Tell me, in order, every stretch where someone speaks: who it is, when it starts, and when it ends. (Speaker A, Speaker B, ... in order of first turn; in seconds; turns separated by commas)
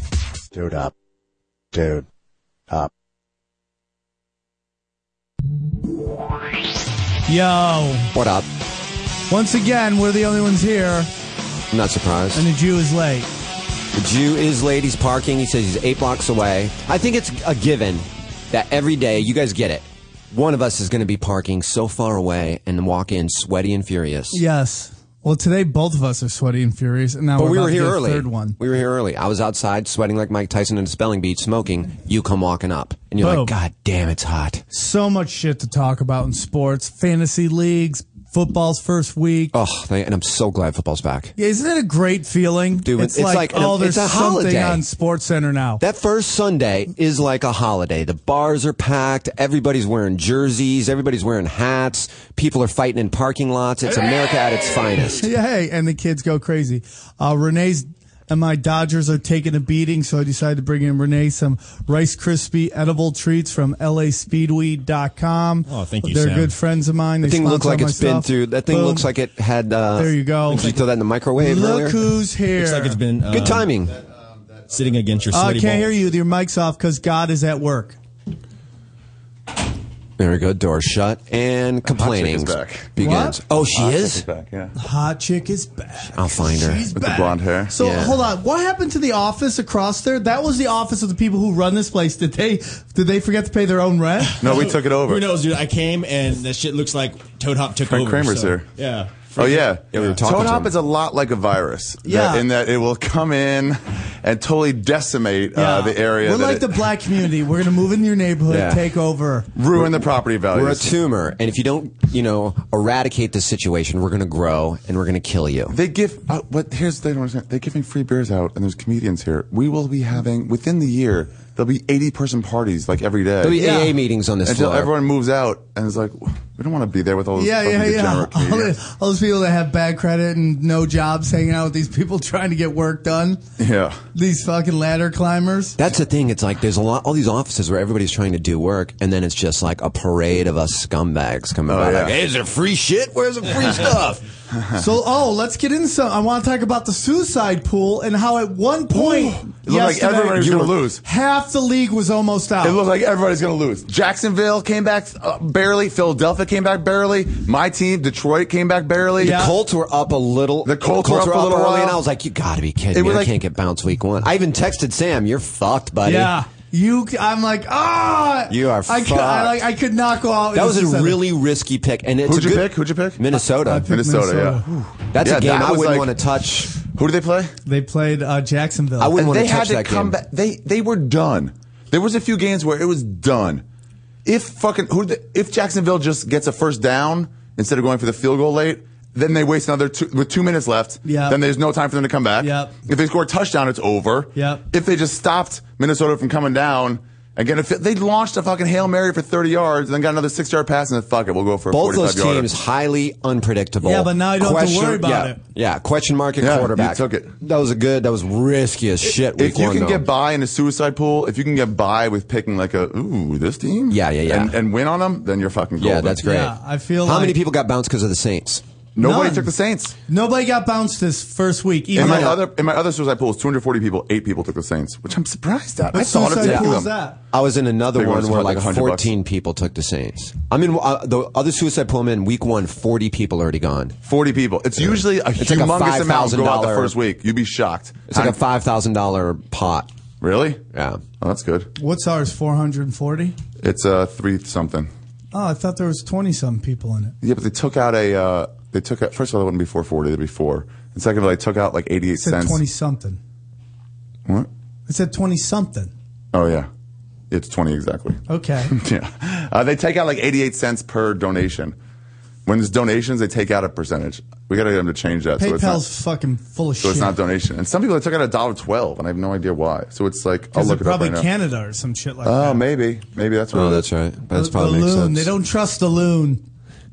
Speaker A: 7.3-8.1, Speaker B: 8.1-8.5, Speaker A: 9.3-11.1, Speaker B: 11.7-12.4, Speaker A: 12.3-13.3, Speaker B: 13.9-24.4, Speaker A: 24.3-28.6, Speaker B: 27.4-34.6, Speaker A: 33.2-33.5, Speaker A: 34.7-39.5, Speaker B: 39.5-41.3, Speaker A: 41.4-45.8, Speaker B: 42.8-44.8, Speaker B: 45.8-55.3, Speaker A: 55.1-69.1, Speaker C: 65.7-66.5, Speaker B: 67.2-72.0, Speaker A: 70.0-70.7, Speaker A: 71.4-73.0, Speaker C: 72.5-73.7, Speaker B: 73.3-74.0, Speaker C: 74.7-75.9, Speaker A: 75.3-78.0, Speaker B: 80.2-84.2, Speaker D: 81.8-82.9, Speaker A: 83.0-83.4, Speaker D: 83.7-84.7, Speaker A: 84.8-94.4, Speaker B: 86.1-86.9, Speaker D: 86.9-87.7, Speaker B: 87.8-88.2, Speaker C: 94.2-100.2, Speaker D: 94.4-95.3, Speaker D: 97.9-98.6, Speaker D: 99.3-106.8, Speaker B: 99.9-100.7, Speaker A: 102.0-102.4, Speaker A: 105.5-109.5, Speaker B: 108.5-108.9, Speaker D: 109.5-110.9, Speaker B: 109.7-115.7, Speaker D: 115.7-123.8, Speaker B: 123.4-124.9, Speaker A: 123.6-123.9, Speaker D: 124.4-128.7, Speaker A: 127.3-133.4, Speaker D: 133.6-134.0, Speaker A: 134.1-135.8, Speaker B: 135.8-144.2, Speaker D: 141.7-142.2, Speaker D: 144.5-144.8, Speaker A: 144.8-152.8, Speaker D: 148.9-151.0, Speaker B: 150.3-150.8, Speaker D: 152.6-159.4, Speaker B: 159.2-166.3, Speaker A: 159.2-159.5, Speaker D: 160.6-162.0, Speaker D: 162.9-163.3, Speaker A: 166.0-171.2, Speaker B: 168.5-169.6, Speaker B: 170.5-173.9, Speaker D: 172.3-173.3, Speaker A: 173.5-174.9, Speaker D: 173.8-174.6, Speaker B: 175.1-176.7, Speaker D: 175.2-176.1, Speaker D: 176.8-177.5, Speaker A: 177.6-179.2, Speaker B: 179.0-180.2, Speaker D: 179.2-183.6, Speaker D: 184.2-202.5, Speaker A: 191.0-191.4, Speaker A: 192.4-192.7, Speaker A: 194.3-194.7, Speaker B: 201.7-210.1, Speaker A: 203.8-205.4, Speaker D: 206.4-207.3, Speaker D: 209.3-216.2, Speaker B: 213.9-214.6, Speaker B: 215.8-218.6, Speaker A: 216.2-217.4, Speaker D: 218.9-219.9, Speaker A: 219.0-219.5, Speaker A: 220.1-222.3, Speaker B: 221.9-222.4, Speaker D: 221.9-226.9, Speaker A: 225.9-227.2, Speaker B: 226.4-226.8, Speaker B: 227.3-234.0, Speaker D: 227.9-229.1, Speaker D: 234.1-238.4, Speaker B: 234.8-236.9, Speaker B: 238.1-239.9, Speaker D: 240.2-240.6, Speaker B: 240.7-241.0, Speaker D: 241.2-241.7, Speaker A: 241.8-243.3, Speaker D: 243.6-244.9, Speaker A: 245.3-247.2, Speaker D: 247.2-252.6, Speaker A: 252.2-253.2, Speaker A: 254.9-255.9, Speaker D: 256.3-256.7, Speaker D: 257.3-261.7, Speaker A: 258.3-258.7, Speaker D: 262.4-265.8, Speaker A: 265.4-267.1, Speaker D: 266.8-271.3, Speaker A: 270.5-272.6, Speaker D: 272.2-273.9, Speaker B: 273.5-275.3, Speaker A: 274.3-276.4